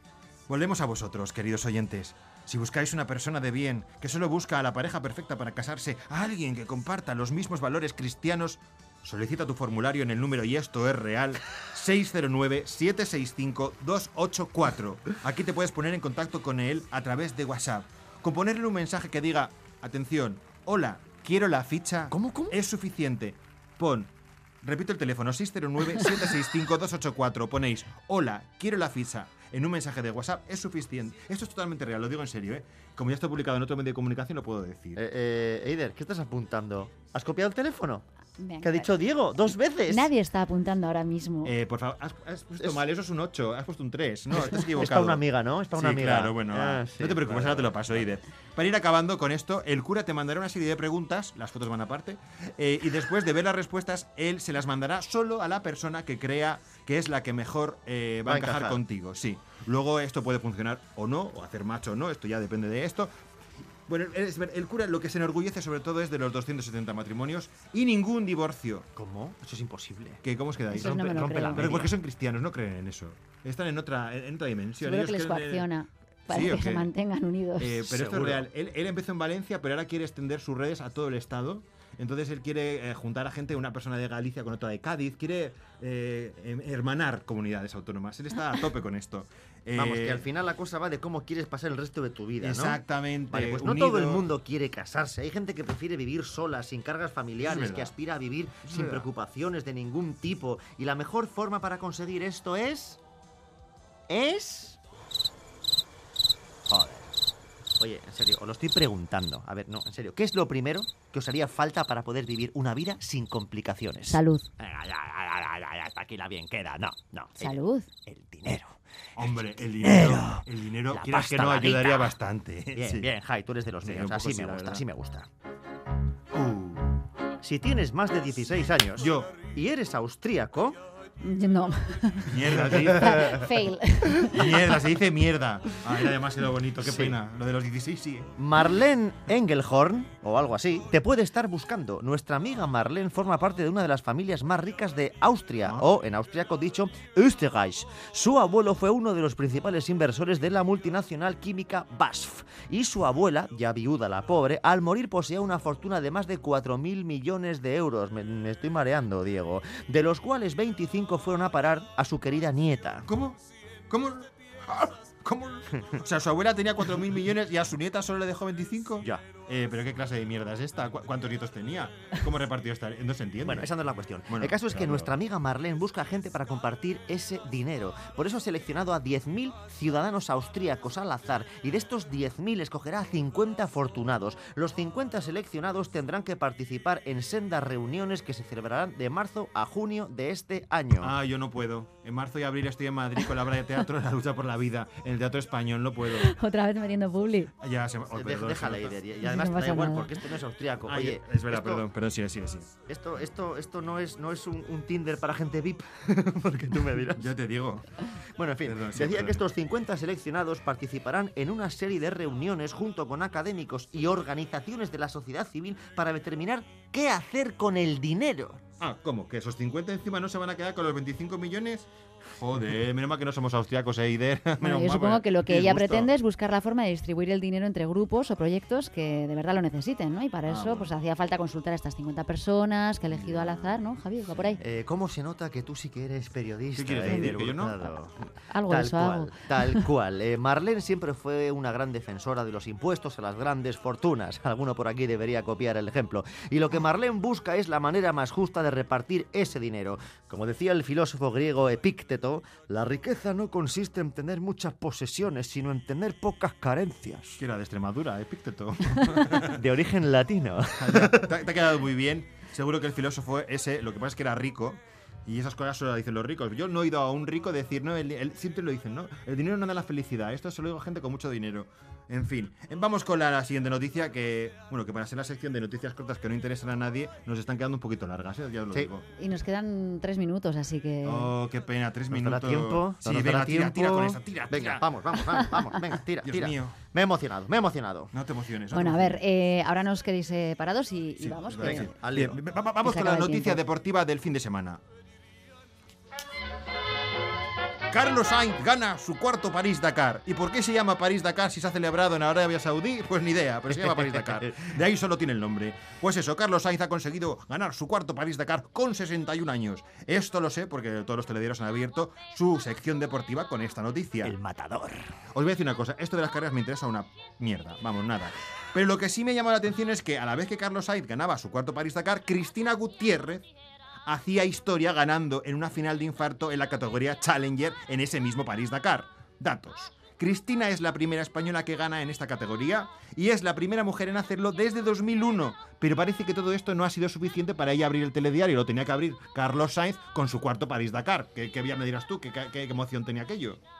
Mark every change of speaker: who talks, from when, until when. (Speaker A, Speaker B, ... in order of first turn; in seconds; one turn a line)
Speaker A: 0.5-24.1
Speaker B: 22.1-22.6
Speaker A: 24.6-35.0
Speaker B: 35.0-38.0
Speaker C: 38.4-38.9
Speaker B: 38.6-40.1
Speaker C: 39.9-41.5
Speaker A: 41.5-63.1
Speaker B: 44.3-48.0
Speaker B: 58.3-58.8
Speaker A: 63.9-68.9
Speaker B: 69.0-72.0
Speaker A: 70.2-75.7
Speaker C: 70.7-71.6
Speaker C: 74.8-77.8
Speaker A: 76.3-76.9
Speaker A: 77.6-90.3
Speaker B: 77.8-78.5
Speaker B: 89.7-103.0
Speaker A: 92.4-94.3
Speaker A: 97.4-97.9
Speaker A: 98.6-99.1
Speaker B: 104.1-104.8
Speaker B: 106.7-107.2
Speaker B: 107.8-122.2
Speaker C: 114.1-114.5
Speaker C: 117.4-117.9
Speaker A: 119.2-123.1
Speaker B: 122.8-125.3
Speaker A: 123.8-124.8
Speaker A: 126.3-127.0
Speaker B: 127.4-130.8
Speaker A: 129.0-129.4
Speaker C: 131.2-134.8
Speaker A: 132.2-133.5
Speaker A: 134.1-138.3
Speaker B: 136.8-137.2
Speaker B: 138.4-163.1
Speaker A: 163.1-173.7
Speaker B: 173.4-191.1
Speaker A: 174.3-175.1
Speaker A: 191.0-196.3
Speaker C: 196.1-197.5
Speaker A: 197.6-199.0
Speaker B: 198.1-201.9
Speaker C: 199.2-200.1
Speaker A: 200.8-202.7
Speaker B: 202.9-207.3
Speaker A: 207.2-208.1
Speaker B: 208.4-218.6
Speaker A: 208.6-209.4
Speaker A: 218.8-226.1
Speaker C: 224.6-234.6
Speaker A: 230.5-230.9
Speaker A: 233.1-233.8
Speaker B: 234.6-257.4
Speaker A: 236.8-237.8
Speaker C: 238.4-239.8
Speaker A: 257.4-259.6
Speaker B: 259.4-261.3
Speaker A: 260.8-279.1
Speaker C: 279.2-281.3
Speaker A: 281.1-285.6
Speaker B: 282.1-288.1
Speaker A: 286.2-286.8
Speaker A: 288.1-289.2
Speaker C: 288.7-291.9
Speaker A: 291.2-294.8
Speaker B: 291.6-292.4
Speaker C: 292.8-293.6
Speaker A: 297.9-314.4
Speaker B: 303.7-304.7
Speaker B: 314.2-315.2
Speaker A: 315.3-323.5
Speaker A: 324.1-343.6